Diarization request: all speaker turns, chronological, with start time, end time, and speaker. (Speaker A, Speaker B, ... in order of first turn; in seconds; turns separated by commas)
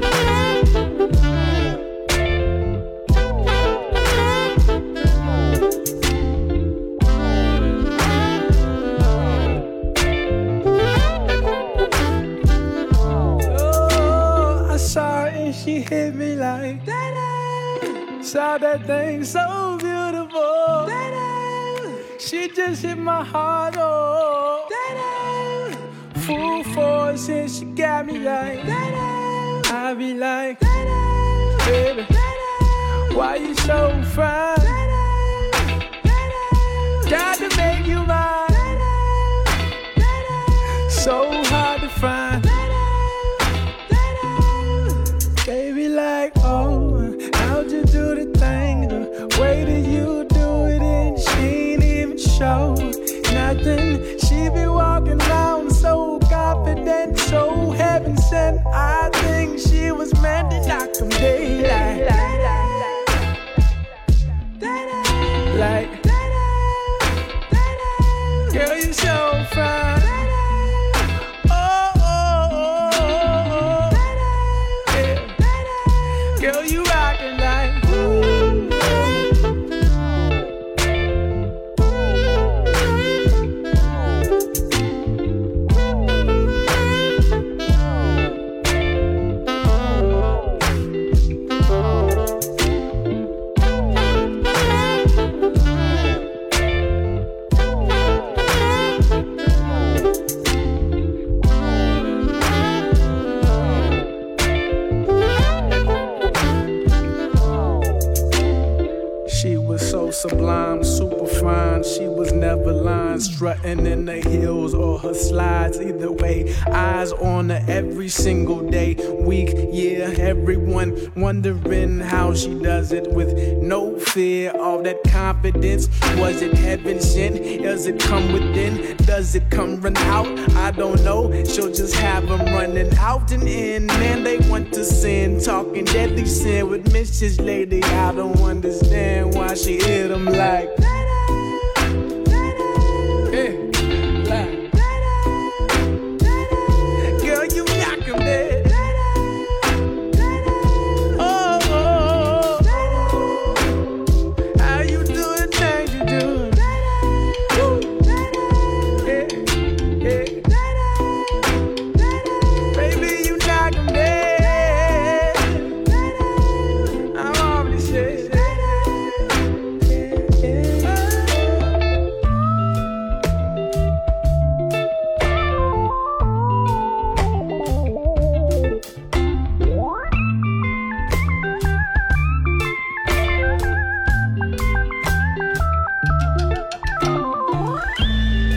Speaker A: 13.4-30.7, Speaker A: 31.5-35.0, Speaker A: 37.0-38.9, Speaker A: 40.7-42.6, Speaker A: 43.9-63.2, Speaker A: 64.6-66.4, Speaker A: 68.4-70.3, Speaker A: 71.5-74.2, Speaker A: 74.9-79.3, Speaker A: 109.2-140.9, Speaker A: 143.3-145.2, Speaker A: 146.9-149.0, Speaker A: 151.1-156.7, Speaker A: 157.5-158.2, Speaker A: 158.9-160.6, Speaker A: 162.7-165.9, Speaker A: 167.0-171.8